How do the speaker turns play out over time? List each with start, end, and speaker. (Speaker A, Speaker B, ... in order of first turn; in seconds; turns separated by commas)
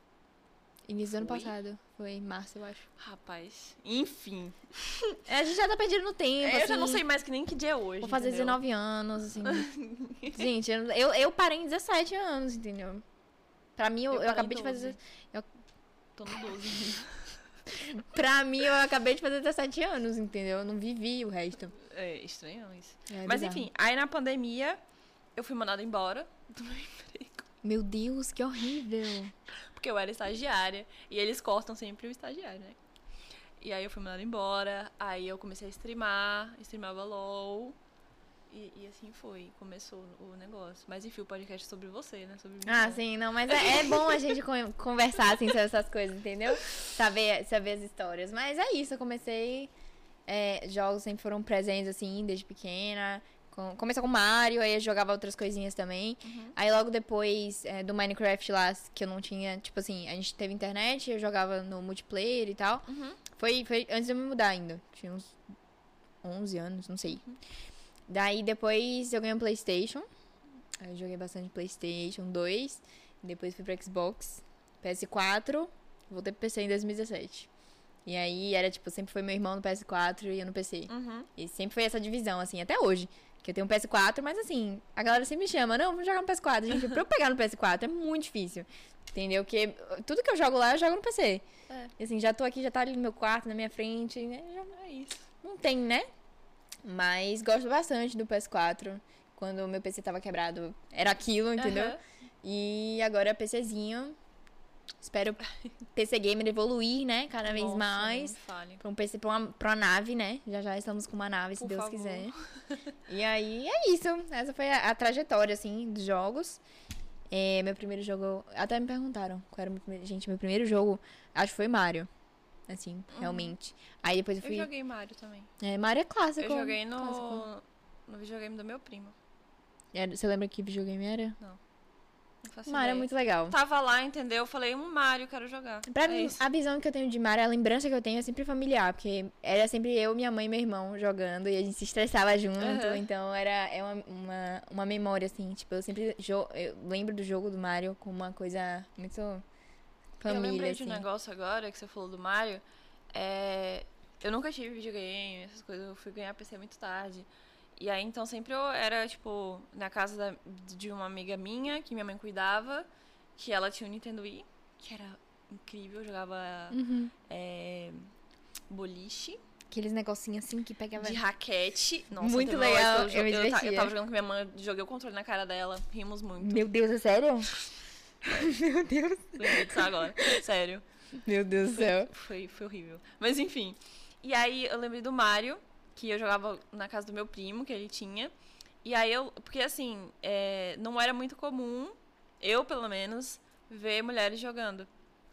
Speaker A: 0.9-2.9, Speaker B: 1.1-1.5, Speaker B: 3.0-5.2, Speaker A: 5.2-7.0, Speaker B: 6.4-8.6, Speaker A: 8.0-9.7, Speaker B: 9.4-10.4, Speaker A: 10.3-13.0, Speaker A: 13.8-15.5, Speaker B: 14.1-15.0, Speaker B: 16.1-17.2, Speaker A: 17.7-21.7, Speaker B: 21.7-24.8, Speaker A: 23.1-23.7, Speaker B: 25.4-27.4, Speaker A: 27.6-29.3, Speaker B: 29.7-32.8, Speaker B: 33.6-37.8, Speaker B: 38.5-44.2, Speaker A: 42.6-49.7, Speaker A: 50.3-65.3, Speaker B: 56.2-56.5, Speaker B: 62.9-63.2, Speaker A: 66.2-67.2, Speaker B: 67.1-67.4, Speaker A: 68.1-70.0, Speaker A: 70.8-77.5, Speaker A: 78.0-91.4, Speaker B: 80.9-81.3, Speaker A: 92.0-94.8, Speaker B: 94.7-95.2, Speaker A: 95.4-96.1, Speaker A: 96.8-104.2, Speaker B: 101.6-102.0, Speaker A: 105.0-105.4, Speaker A: 105.9-112.3, Speaker B: 107.4-108.8, Speaker B: 111.6-112.8, Speaker A: 113.1-116.6, Speaker A: 117.3-122.1, Speaker A: 122.7-124.7, Speaker B: 123.1-123.5, Speaker B: 124.4-125.5, Speaker A: 125.6-127.4, Speaker B: 126.4-129.1, Speaker A: 129.9-131.4, Speaker B: 132.4-136.4, Speaker A: 132.7-133.6, Speaker A: 135.9-149.4, Speaker B: 142.6-143.0, Speaker A: 150.2-151.0, Speaker B: 150.2-168.1, Speaker A: 166.7-167.1, Speaker B: 168.7-169.4, Speaker A: 169.7-171.2, Speaker B: 171.0-176.7, Speaker A: 172.2-173.9, Speaker A: 176.4-177.5, Speaker A: 178.2-180.4, Speaker B: 179.4-180.8, Speaker A: 181.2-182.1, Speaker B: 181.7-188.3, Speaker B: 188.8-194.9